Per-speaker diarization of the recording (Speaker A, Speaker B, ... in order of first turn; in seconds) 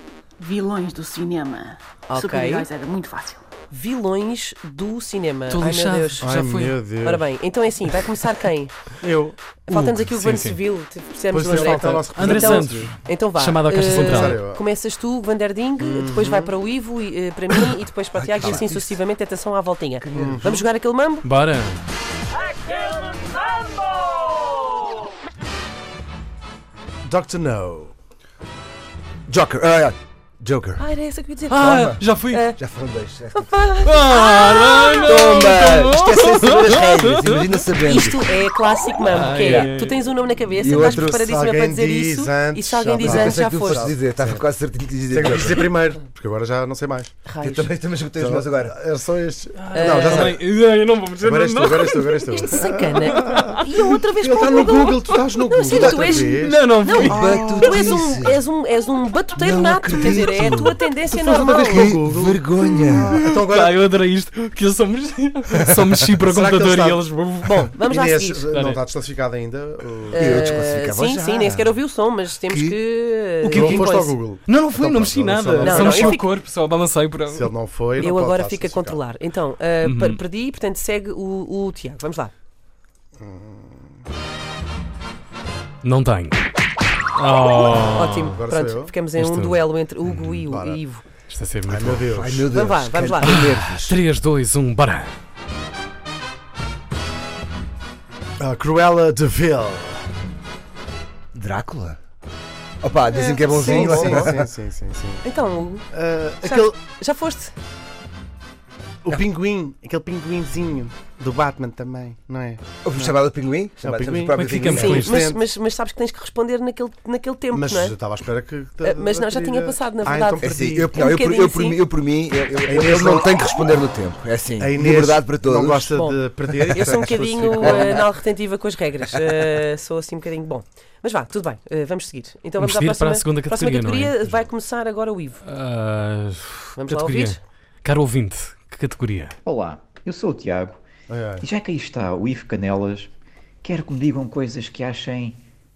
Speaker A: 0.4-3.5
Speaker B: 2.1-2.7, 3.7-6.3, 7.0-8.7, 9.7-21.2, 30.8-31.6, 32.3-32.6, 33.3-35.5, 37.9-43.9, 47.2-47.7, 49.7-50.4, 52.3-61.9, 67.8-68.4, 70.1-74.2, 75.6-76.3, 78.0-82.3, 87.9-91.0, 92.5-93.3, 103.1-104.3, 105.2-105.8, 106.4-107.5, 114.7-117.9, 118.8-121.8, 125.9-126.2, 126.7-135.4, 136.8-137.4
Speaker C: 5.5-6.8, 9.7-10.6, 11.5-14.4, 21.2-21.8, 31.5-32.4, 33.8-37.6, 39.0-40.0, 49.5-53.6, 56.2-57.5, 63.0-67.7, 68.5-68.8, 73.5-78.1, 79.8-80.2, 85.8-86.4, 87.1-88.4, 89.2-90.4, 91.3-92.1, 93.2-95.1, 114.3-115.2, 132.6-134.2, 135.4-139.3
Speaker D: 6.2-7.3, 9.0-9.5, 11.3-12.9, 13.8-14.6, 15.8-16.5, 20.1-20.5, 27.0-27.9, 40.6-44.5, 45.1-47.1, 48.2-50.4, 51.2-53.6, 54.2-57.7, 61.1-63.8, 66.2-70.3, 73.4-76.2, 77.3-79.0, 83.2-84.0, 88.3-88.9, 90.5-90.8, 91.7-92.6, 98.4-100.1, 103.5-105.2, 105.9-106.8, 109.0-113.2, 113.8-115.4, 117.5-120.9, 122.6-123.4, 124.6-128.0, 141.1-141.4
Speaker E: 18.1-19.0, 20.0-20.7, 29.3-30.8, 31.5-32.0, 32.5-33.5, 35.0-38.4, 39.4-39.7, 40.6-41.1, 43.0-45.7, 47.4-48.7, 49.9-50.3, 55.7-56.2, 57.0-58.4, 59.4-60.8, 61.7-63.2, 70.1-71.8, 72.5-72.8, 92.1-94.0, 101.3-102.0, 102.8-104.4, 112.8-115.1, 120.4-126.0, 126.8-128.0
Speaker F: 139.4-140.8, 141.4-143.1, 143.6-145.4